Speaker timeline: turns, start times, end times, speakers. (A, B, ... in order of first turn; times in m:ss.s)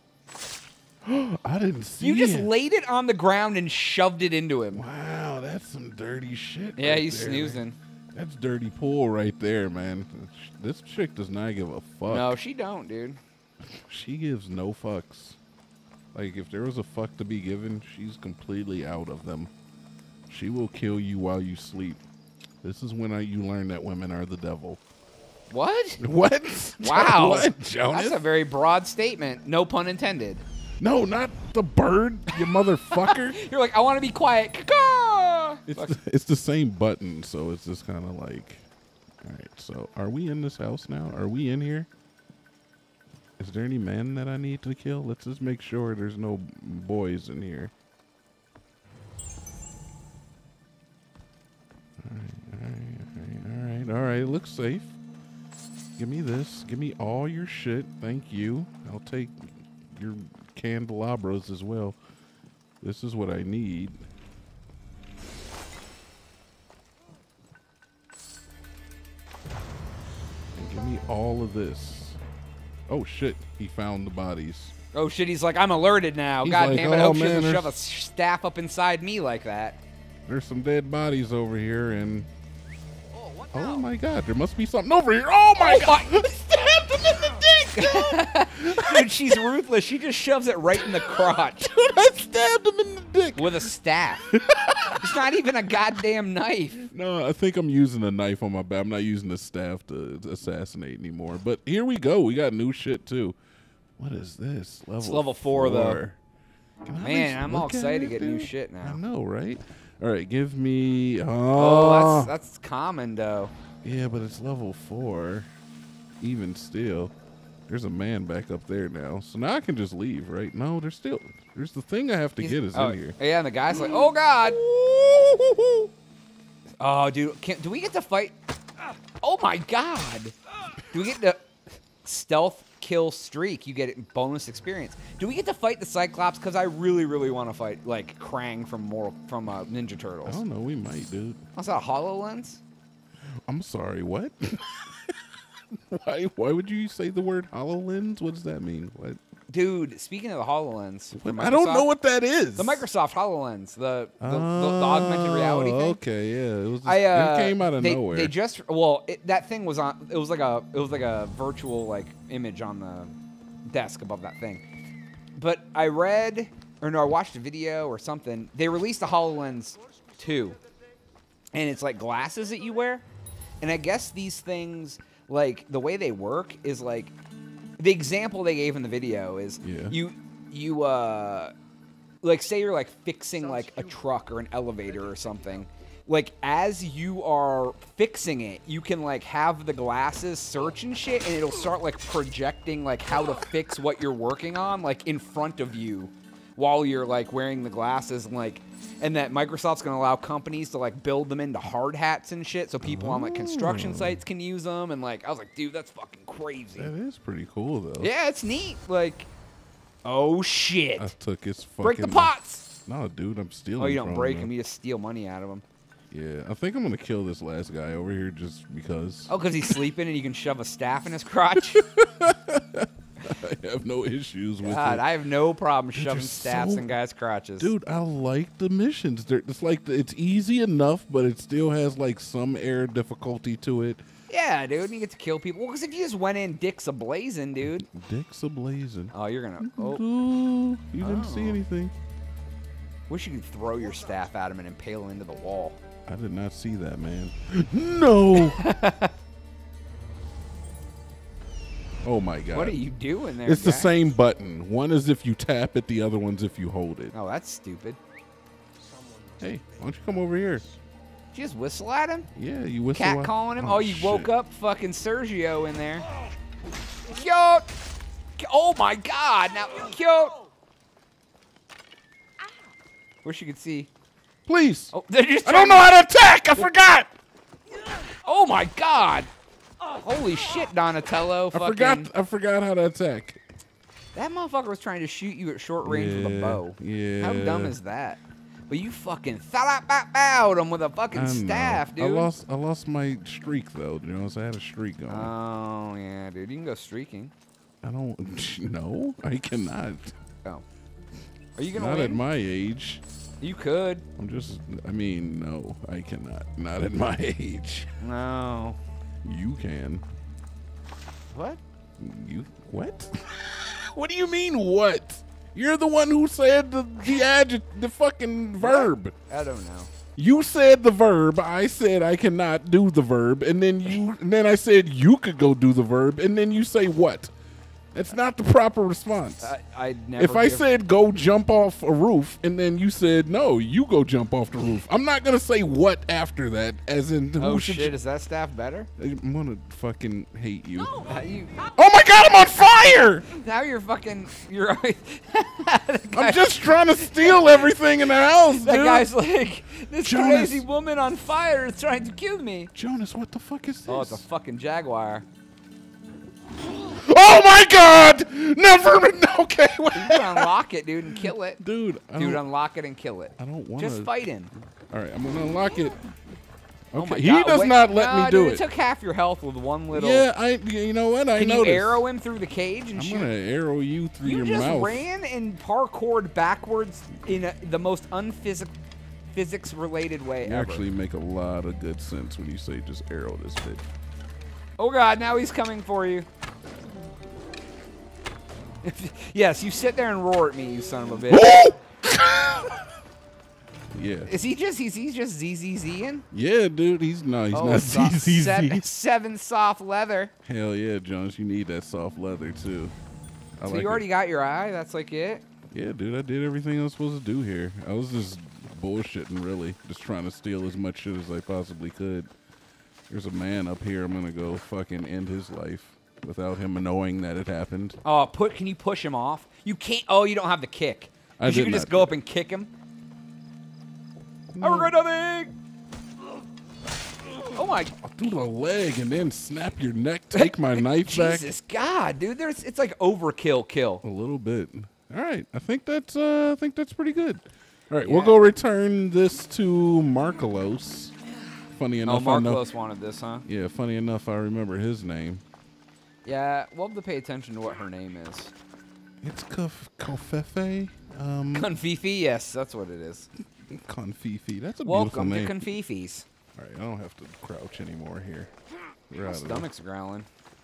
0:01.0-0:02.5 A
0:02.0-0:04.8 B
0:04.7-0:12.4 A
0:06.8-0:07.8 B
0:12.1-0:13.2 B
0:13.7-0:15.4 A
0:16.1-0:19.5 A
0:20.3-0:22.0 A
0:22.6-0:24.8 A
0:25.5-0:26.0 B
0:26.0-0:28.2 A
0:26.8-0:30.4 B
0:30.8-0:33.4 A
0:32.9-0:36.0 B
0:35.7-0:38.6 A
0:39.2-0:41.9 A
0:43.4-0:47.7 A
0:52.0-0:55.0 A
0:56.0-1:02.0 A
1:02.8-1:04.0 A
1:10.5-1:12.2 A
1:12.9-1:14.7 A
1:14.9-1:19.8 B
1:16.4-1:17.8 A
1:20.3-1:22.3 A
1:23.5-1:29.4 A
1:25.6-1:26.3 B
1:27.7-1:31.7 B
1:30.8-1:33.7 A
1:33.4-1:34.4 B
1:34.3-1:35.2 A
1:35.0-1:36.8 B
1:36.8-1:43.4 A
1:44.0-1:46.2 A
1:45.0-1:46.0 B
1:46.9-1:52.3 A
1:47.0-1:49.0 B
1:51.6-1:53.5 B
1:53.8-1:55.5 A
1:56.2-1:57.1 A
1:57.7-2:03.2 A
2:02.4-2:04.6 B
2:03.7-2:05.9 A
2:06.8-2:08.4 B
2:09.2-2:10.4 B
2:10.9-2:11.5 B
2:12.0-2:20.4 B
2:20.2-2:21.4 A
2:21.6-2:22.6 B
2:23.5-2:25.2 A
2:25.7-2:29.2 A
2:29.5-2:31.9 B
2:31.2-2:32.9 A
2:32.6-2:36.0 B
2:34.2-2:38.3 A
2:36.8-2:43.1 B
2:43.7-2:44.6 B
2:45.4-2:50.6 B
2:51.5-2:53.0 B
2:53.6-2:57.2 B
2:57.8-3:01.5 B
2:59.6-3:00.0 A
3:02.2-3:26.9 B
3:22.8-3:24.2 A
3:26.8-3:28.1 A
3:28.0-3:29.3 B
3:30.0-3:31.1 B
3:31.0-3:34.5 A
3:31.8-3:32.7 B
3:33.8-3:35.6 B
3:36.1-3:39.3 A
3:39.3-3:41.9 B
3:41.7-3:45.0 A
3:44.6-3:47.7 B
3:46.0-3:46.9 A
3:47.6-3:54.0 A
3:54.3-3:57.9 B
3:57.6-4:02.0 A
3:59.1-4:00.0 B
4:01.0-4:01.6 B
4:03.1-4:05.8 B
4:06.1-4:08.7 A
4:08.4-4:09.1 B
4:12.0-4:12.8 A
4:12.5-4:13.9 B
4:13.4-4:17.1 A
4:17.1-4:18.0 B
4:19.4-4:20.7 A
4:21.3-4:22.3 B
4:22.3-4:24.3 A
4:22.9-4:26.1 B
4:27.1-4:27.7 B
4:28.4-4:30.4 B
4:33.2-4:33.9 B
4:34.5-4:34.9 A
4:34.9-4:35.9 B
4:35.4-4:37.1 A
4:38.2-4:39.3 B
4:39.8-4:42.1 B
4:41.5-4:43.4 A
4:44.1-4:52.3 B
4:45.8-4:47.8 A
4:51.1-4:55.3 A
4:55.1-4:57.3 B
4:57.8-5:00.2 A
5:01.6-5:02.2 B
5:01.7-5:03.0 A
5:03.4-5:04.1 B
5:04.2-5:07.9 A
5:08.0-5:08.8 B
5:09.2-5:10.0 A
5:11.3-5:11.6 B
5:12.0-5:19.1 A
5:18.6-5:19.9 B
5:20.2-5:27.3 A
5:27.9-5:29.5 A
5:29.4-5:30.7 B
5:30.2-5:38.0 A
5:37.4-5:38.9 B
5:39.0-5:41.0 A
5:41.0-5:41.6 B
5:41.7-5:43.3 A
5:43.3-5:47.7 B
5:46.1-5:49.1 A
5:48.5-5:52.7 B
5:50.0-5:50.6 A
5:52.8-5:54.2 A
5:53.9-5:55.3 B
5:56.7-6:00.5 A
5:59.9-6:01.6 B
6:01.1-6:02.4 A
6:02.2-6:04.5 B
6:03.4-6:04.1 A
6:04.8-6:06.0 A
6:06.9-6:08.6 A
6:07.0-6:10.2 B
6:09.9-6:12.0 A
6:11.4-6:13.3 B
6:12.9-6:15.1 A
6:14.2-6:18.8 B
6:19.3-6:20.9 B
6:20.4-6:23.9 A
6:24.8-6:26.3 B
6:28.8-6:31.6 B
6:31.3-6:32.8 A
6:33.9-6:34.3 A
6:34.3-6:36.3 B
6:36.3-6:38.9 A
6:37.5-6:40.3 B
6:40.4-6:43.0 A
6:43.6-6:44.0 A
6:43.6-6:45.4 B
6:45.7-6:52.3 A
6:53.1-6:58.0 A
6:58.0-7:02.7 B
7:01.4-7:02.2 A
7:04.5-7:05.0 A
7:04.6-7:05.5 B
7:07.5-7:08.0 B
7:08.0-7:11.5 A
7:10.3-7:14.0 B
7:14.0-7:21.1 A
7:18.0-7:18.4 B
7:21.7-7:22.7 A
7:22.1-7:23.5 B
7:23.5-7:25.4 A
7:26.2-7:28.5 B
7:29.2-7:31.7 A
7:31.5-7:33.3 B
7:33.7-7:35.6 A
7:34.8-7:36.3 B
7:36.6-7:38.5 A
7:39.1-7:39.7 A
7:39.2-7:40.3 B